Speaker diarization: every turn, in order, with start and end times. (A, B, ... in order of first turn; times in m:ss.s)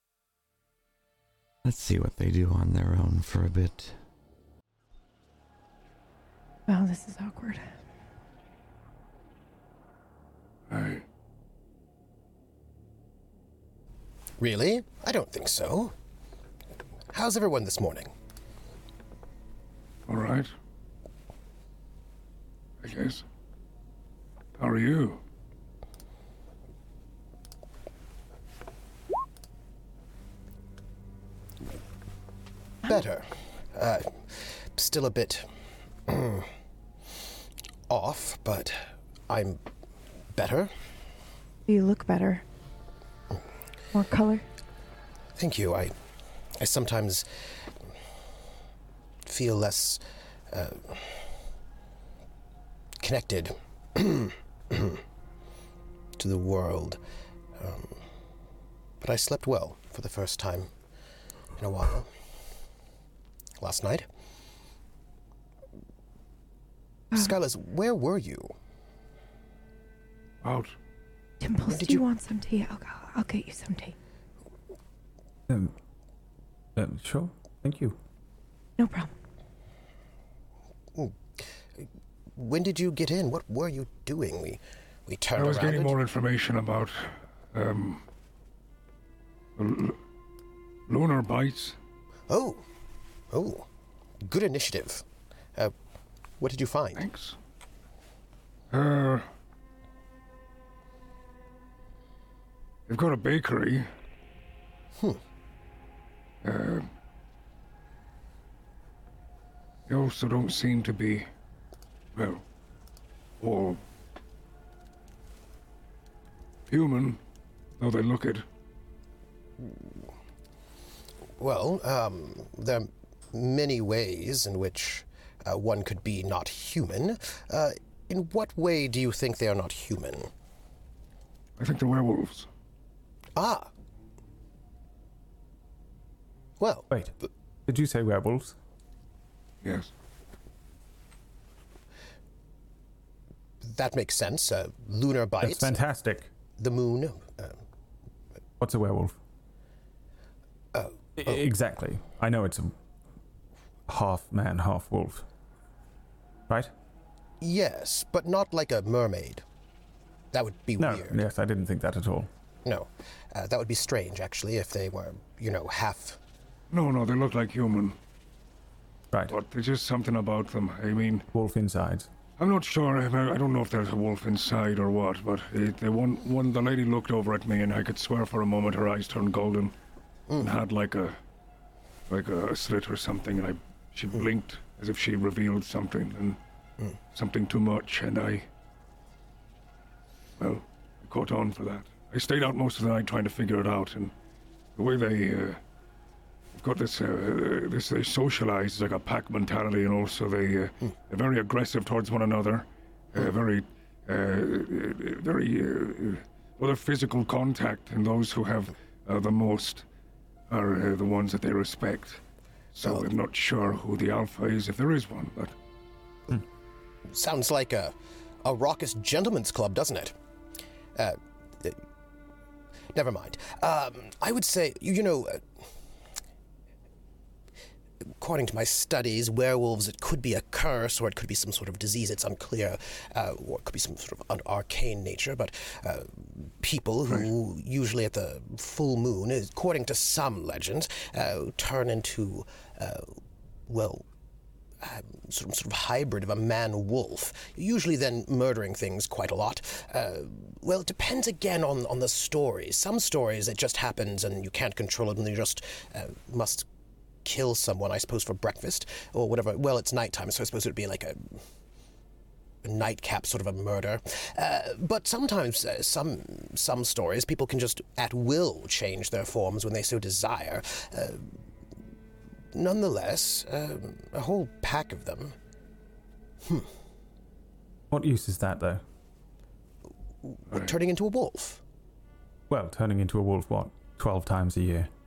0:01.6-0:04.0 A
0:06.7-0:07.7 B
0:10.7-0:11.0 C
0:14.4-0:15.9 D
0:17.1-0:18.1 D
0:20.1-0:20.5 C
0:22.8-0:23.2 C
0:24.6-0:25.2 C
0:32.8-0:35.5 D
0:36.0-0:36.5 D
0:37.9-0:39.6 D
0:40.3-0:40.7 D
0:41.7-0:42.4 B
0:43.9-0:44.4 B
0:45.4-0:45.9 D
0:46.6-0:47.7 D
0:49.2-0:51.2 D
0:53.0-0:55.0 D
0:56.2-0:57.0 D
0:57.5-0:58.0 D
0:59.0-1:00.7 D
1:01.6-1:02.1 D
1:03.6-1:04.1 D
1:07.1-1:08.5 D
1:10.4-1:10.8 C
1:11.4-1:14.0 B
1:11.7-1:12.0 D
1:16.8-1:18.0 E
1:18.8-1:19.1 B
1:20.9-1:26.0 D
1:25.4-1:28.0 C
1:29.6-1:30.0 C
1:30.9-1:31.8 C
1:32.3-1:32.6 D
1:33.3-1:33.7 D
1:34.2-1:35.7 D
1:36.4-1:37.0 D
1:37.0-1:37.4 C
1:38.7-1:39.3 C
1:42.9-1:43.9 C
1:44.9-1:45.2 D
1:46.4-1:46.9 C
1:49.9-1:51.3 C
1:52.1-1:52.4 C
1:53.4-1:53.8 C
1:56.7-1:57.2 C
1:57.8-1:58.4 C
2:01.4-2:10.3 D
2:11.6-2:12.5 C
2:13.3-2:13.7 D
2:16.6-2:16.9 D
2:17.7-2:18.5 E
2:19.6-2:19.9 C
2:23.6-2:25.8 D
2:25.4-2:26.3 E
2:26.6-2:27.6 D
2:28.6-2:29.1 E
2:30.7-2:31.4 D
2:31.2-2:32.7 E
2:33.9-2:35.2 E
2:37.4-2:39.4 D
2:40.3-2:41.2 D
2:40.8-2:42.3 E
2:42.6-2:46.2 D
2:46.7-2:48.0 C
2:49.3-2:51.3 C
2:51.3-2:52.1 E
2:52.4-2:59.7 C
3:00.4-3:01.2 C
3:02.1-3:06.4 C
3:07.1-3:08.5 C
3:10.4-3:14.1 C
3:14.8-3:15.6 C
3:16.5-3:29.8 C
3:30.5-3:32.2 C
3:32.7-3:35.5 C
3:37.0-3:40.2 D
3:40.9-3:41.8 D
3:42.9-3:45.6 D
3:48.1-4:03.2 D
4:03.7-4:04.0 D
4:04.8-4:16.7 D
4:17.2-4:21.4 D
4:22.6-4:31.3 D
4:32.5-4:35.3 D
4:36.4-4:36.7 D
4:37.9-4:38.8 E
4:40.2-4:41.6 D
4:42.5-4:44.9 E